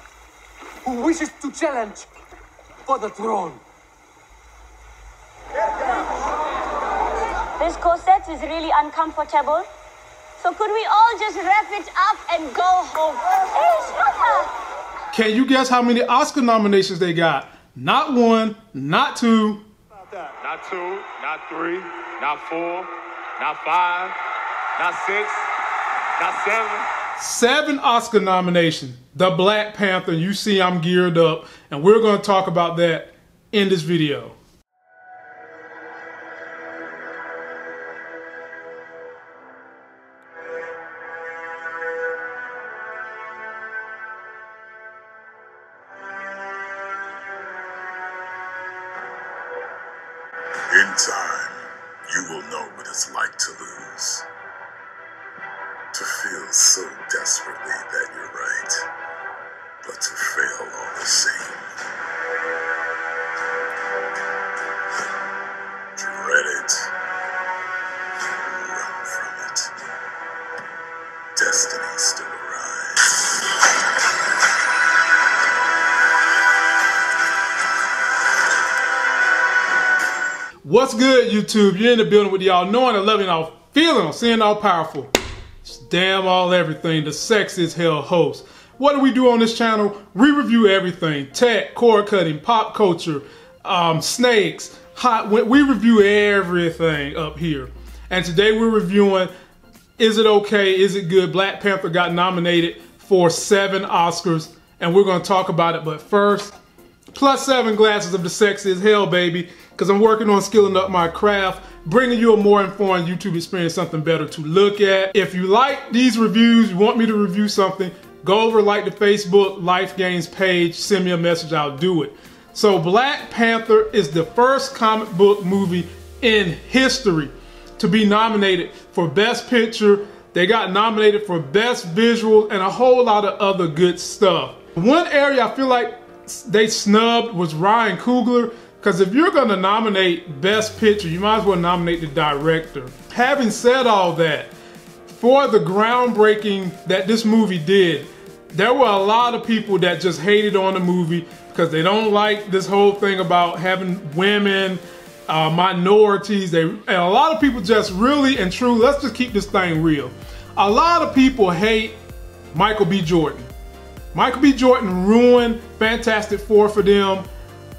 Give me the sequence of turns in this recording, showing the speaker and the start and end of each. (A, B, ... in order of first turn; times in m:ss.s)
0:00.8-0:02.1 A
0:02.9-0:03.6 A
0:07.6-0:09.7 B
0:10.4-0:14.5 B
0:15.1-0:19.6 C
0:20.2-0:24.2 D
0:24.8-0:25.4 D
0:26.2-0:26.9 D
0:27.2-0:34.4 C
0:50.7-0:54.3 E
0:55.9-0:58.9 E
0:59.8-1:01.7 E
1:06.0-1:06.9 E
1:08.4-1:09.7 E
1:11.4-1:13.2 E
1:20.6-1:25.1 C
1:25.6-1:39.3 C
1:40.0-1:46.5 C
1:47.1-2:24.5 C
2:25.1-2:42.0 C
2:42.5-2:43.5 C
2:44.1-2:47.3 C